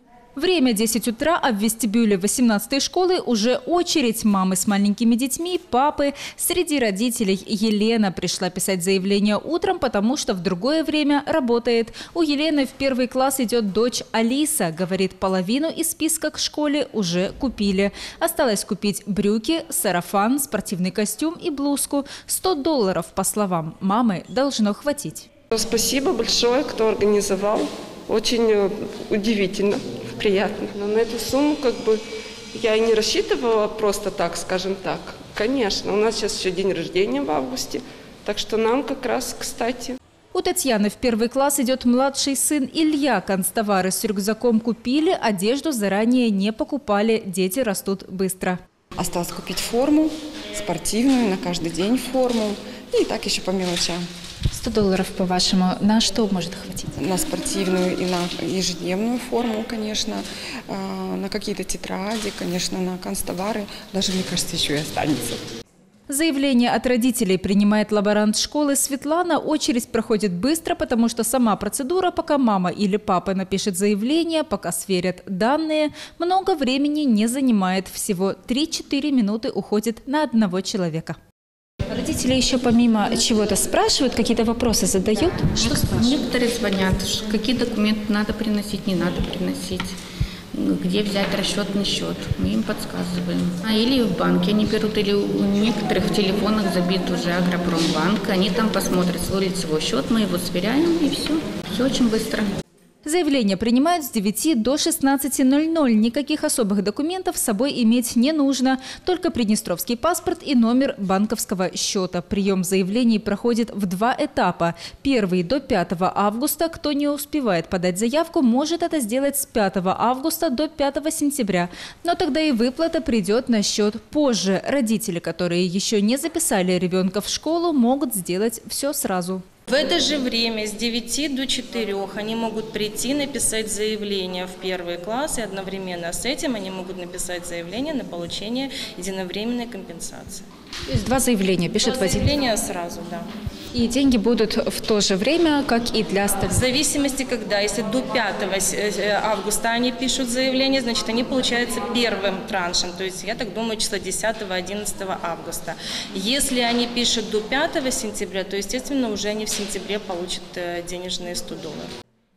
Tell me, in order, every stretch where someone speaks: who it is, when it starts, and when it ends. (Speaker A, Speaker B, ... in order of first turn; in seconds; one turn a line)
Speaker A: 0.4-25.3
Speaker B: 25.5-32.0
Speaker B: 32.5-40.0
Speaker A: 40.3-48.6
Speaker C: 49.0-54.0
Speaker A: 54.5-56.9
Speaker C: 57.0-65.4
Speaker A: 66.1-81.2
Speaker A: 81.9-85.6
Speaker D: 85.5-89.9
Speaker D: 90.5-102.5
Speaker A: 103.0-129.4
Speaker E: 129.7-140.4
Speaker A: 140.9-142.3
Speaker E: 141.7-143.3
Speaker A: 143.7-146.5
Speaker E: 146.4-161.9